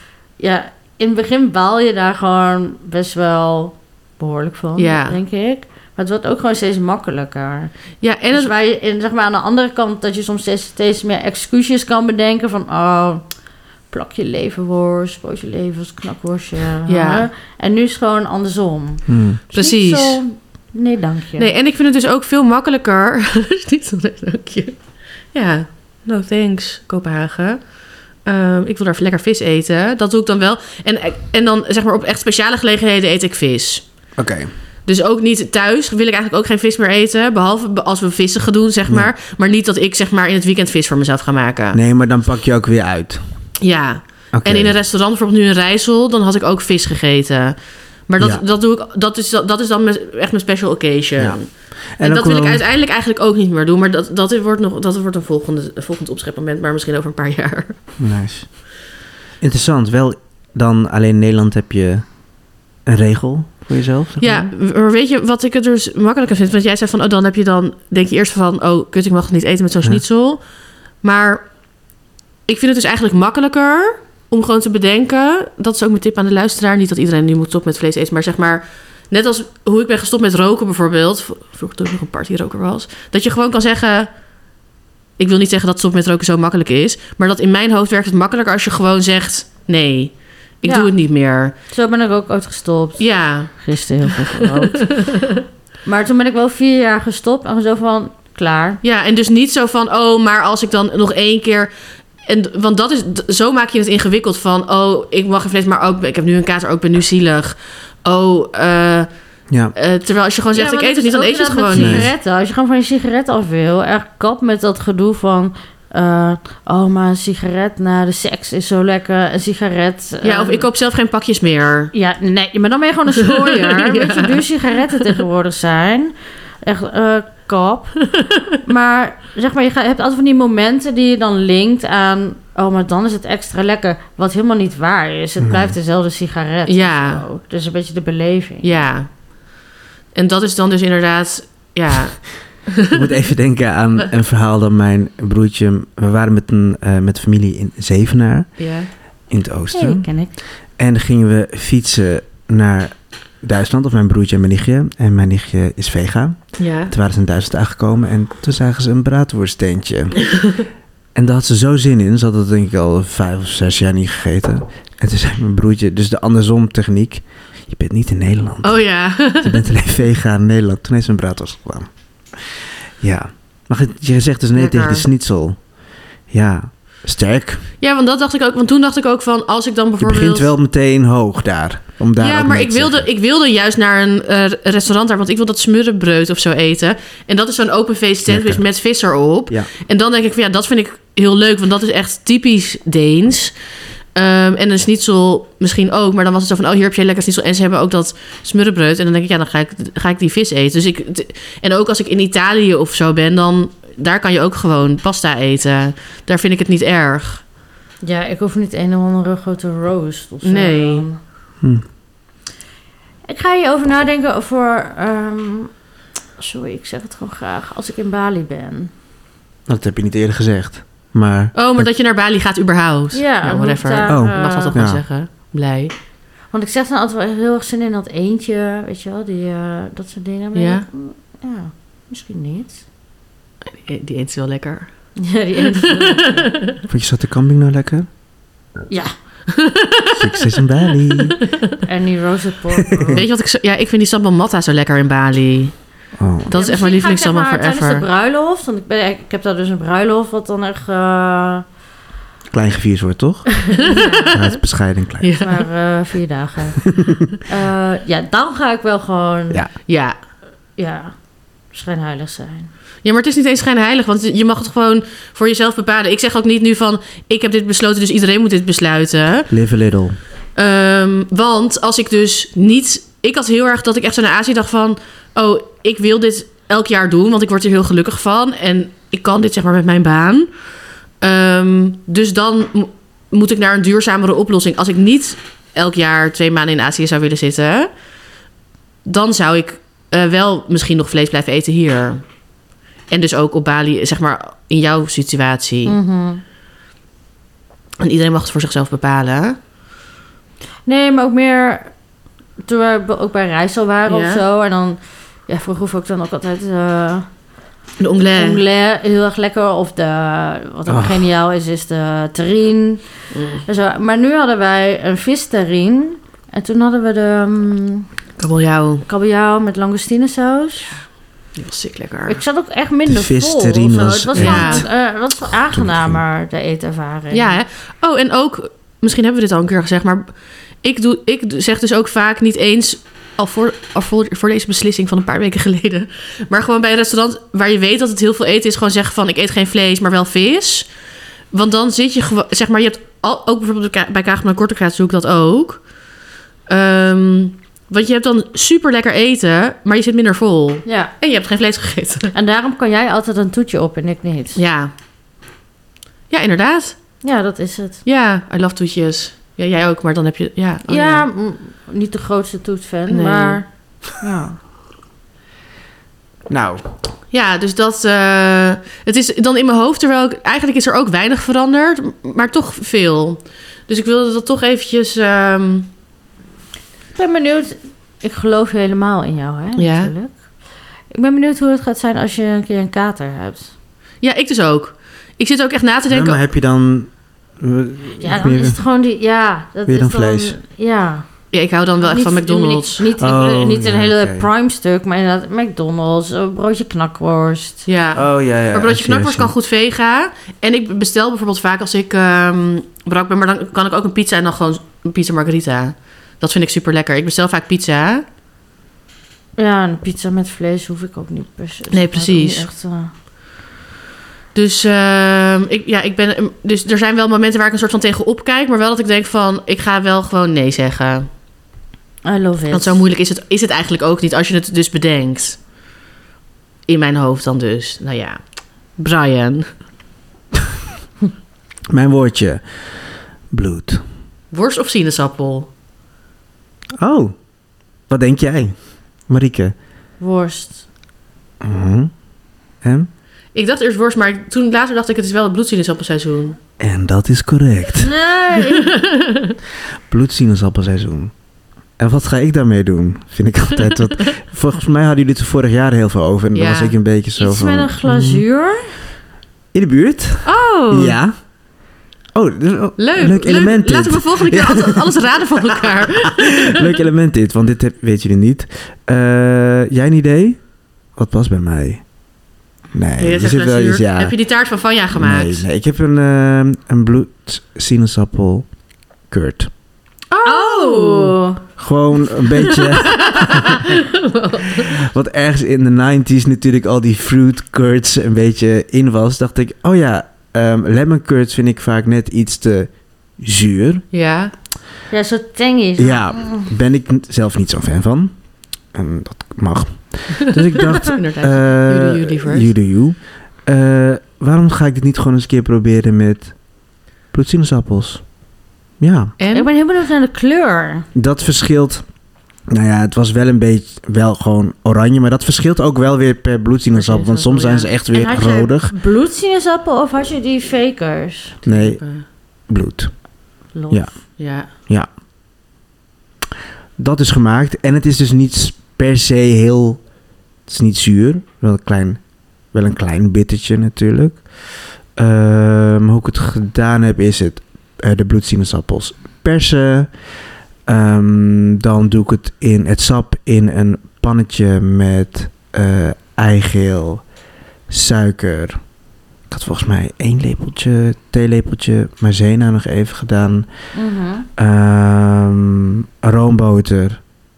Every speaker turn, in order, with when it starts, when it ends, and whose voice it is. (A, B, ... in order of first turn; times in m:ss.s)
0:00.4-0:07.7 A
0:04.8-0:05.2 B
0:08.0-0:08.5 B
0:08.3-0:13.3 A
0:13.9-0:21.5 A
0:16.9-0:17.3 B
0:19.1-0:19.4 C
0:19.5-0:20.2 B
0:21.4-0:33.9 B
0:34.2-0:34.5 C
0:34.9-0:41.8 B
0:38.9-0:39.1 C
0:41.7-0:43.2 C
0:43.6-0:57.8 B
0:44.3-0:44.8 C
0:51.2-0:52.6 C
0:58.0-0:58.8 C
0:59.4-1:02.1 C
1:02.8-1:04.5 C
1:04.2-1:10.5 B
1:11.0-1:11.5 B
1:12.5-1:24.1 B
1:25.2-1:31.5 B
1:30.6-1:30.9 A
1:31.7-1:35.1 A
1:33.0-1:35.3 B
1:35.8-1:38.8 A
1:38.8-1:41.7 B
1:42.2-1:52.1 B
1:50.5-2:00.7 A
1:51.7-1:52.1 C
2:00.2-2:01.9 B
2:01.9-2:08.0 A
2:03.4-2:04.4 B
2:08.6-2:18.8 A
2:15.4-2:15.8 C
2:16.7-2:17.2 B
2:18.6-2:19.2 B
2:20.2-2:23.1 B
2:22.9-2:28.6 C
2:28.6-2:28.9 B
2:29.3-2:30.1 C
2:29.7-2:30.3 A
2:30.8-2:40.3 C
2:36.6-2:36.9 B
2:41.2-2:55.6 C
2:48.6-2:49.6 B
2:54.6-2:55.1 B
2:56.3-2:57.6 C
2:57.8-3:00.5 B
3:00.0-3:03.1 C
3:02.2-3:13.6 B
3:08.3-3:08.6 C
3:14.2-3:27.4 B
3:28.0-3:31.2 A
3:30.4-3:31.0 B
3:33.3-3:35.7 A
3:36.4-3:38.9 A
3:39.7-3:41.9 C
3:41.6-3:45.9 B
3:43.1-3:44.8 A
3:44.1-3:45.0 C
3:46.5-3:52.8 A
3:50.6-3:50.9 B
3:53.7-3:55.1 B
3:55.2-3:56.5 A
3:55.7-3:56.8 B
3:56.9-3:58.1 C
3:59.5-4:01.8 B
4:00.1-4:01.4 C
4:01.8-4:03.2 A
4:02.8-4:03.2 C
4:03.1-4:05.8 B
4:06.2-4:06.5 C
4:06.5-4:08.1 B
4:06.5-4:11.6 A
4:12.5-4:13.5 C
4:13.7-4:14.4 A
4:13.8-4:14.6 B
4:14.3-4:15.3 C
4:15.2-4:15.7 B
4:15.4-4:19.7 A
4:19.9-4:20.2 B
4:20.8-4:21.2 A
4:21.7-4:22.7 A
4:23.0-4:29.5 B
4:29.5-4:30.2 C
4:30.6-4:40.5 B
4:41.2-4:47.9 B
4:49.1-4:52.2 B
4:53.1-4:56.0 B
4:55.9-4:56.4 A
4:58.0-4:59.6 B
5:00.9-5:01.9 A
5:02.6-5:07.3 A
5:04.1-5:04.4 B
5:08.0-5:08.6 B
5:08.3-5:13.1 A
5:10.9-5:11.3 C
5:13.3-5:13.6 B
5:13.6-5:18.1 A
5:18.4-5:19.0 B
5:19.1-5:21.0 A
5:21.6-5:22.4 B
5:22.3-5:27.6 A
5:23.1-5:24.9 C
5:24.4-5:24.9 B
5:25.7-5:26.2 C
5:27.3-5:40.9 B
5:41.5-5:45.9 B
5:46.7-5:52.3 B
5:50.8-5:51.1 A
5:52.3-5:54.6 A
5:54.6-5:54.9 B
5:56.3-5:57.0 B
5:57.2-5:58.0 A
5:58.0-6:01.2 B
6:00.9-6:04.6 A
6:03.1-6:03.6 B
6:06.5-6:06.8 C
6:07.3-6:15.9 B
6:17.2-6:20.4 A
6:19.8-6:20.1 B
6:21.1-6:23.7 A
6:24.2-6:26.4 B
6:26.1-6:28.8 C
6:28.2-6:31.3 A
6:29.9-6:30.6 C
6:31.5-6:33.1 B
6:32.0-6:37.9 A
6:33.2-6:34.5 C
6:37.9-6:48.2 B
6:38.2-6:39.5 C
6:49.6-6:53.1 A
6:51.9-6:52.7 B
6:54.5-7:01.3 B
7:02.2-7:03.0 A
7:02.7-7:05.6 B
7:06.9-7:08.4 B
7:09.0-7:09.7 B
7:11.9-7:12.6 C
7:13.5-7:14.0 C
7:14.5-7:15.7 B
7:17.0-7:17.4 C
7:18.1-7:18.8 C
7:19.3-7:19.7 C
7:20.2-7:20.8 A
7:21.6-7:22.1 C
7:22.8-7:23.1 C
7:23.5-7:26.6 B
7:26.8-7:28.1 C
7:28.0-7:28.9 A
7:28.7-7:29.6 B
7:30.1-7:31.3 C
7:32.0-7:38.4 C
7:36.5-7:36.9 B
7:37.4-7:38.9 A
7:39.7-7:41.4 C
7:40.4-7:41.2 B
7:42.3-7:50.6 C
7:43.0-7:47.0 B
7:51.2-7:52.0 C
7:52.9-7:54.4 C
7:53.2-7:55.6 B
7:55.1-7:58.7 C
7:59.3-7:59.7 C
8:00.3-8:01.4 B
8:00.4-8:01.6 A
8:01.8-8:04.0 C
8:02.6-8:05.0 B
8:04.8-8:14.0 C
8:14.1-8:14.5 B
8:15.1-8:16.7 A
8:16.0-8:18.4 C
8:18.9-8:26.6 C
8:20.4-8:22.7 B
8:27.3-8:28.2 C
8:29.0-8:29.3 C
8:29.4-8:29.7 B
8:29.5-8:31.1 A
8:31.2-8:32.0 C
8:32.7-8:38.9 C
8:37.0-8:37.9 B
8:38.1-8:41.6 A
8:41.6-8:42.2 B
8:41.7-8:42.0 C
8:42.7-8:43.1 C
8:43.7-8:44.1 A
8:43.9-8:45.1 C
8:44.4-8:44.7 B
8:47.0-8:50.0 C
8:50.7-8:52.2 C
8:52.7-8:54.5 C
8:55.2-9:00.1 C
9:00.9-9:07.2 C
9:07.9-9:08.8 C
9:09.5-9:13.9 C
9:13.9-9:14.5 A
9:14.6-9:17.2 C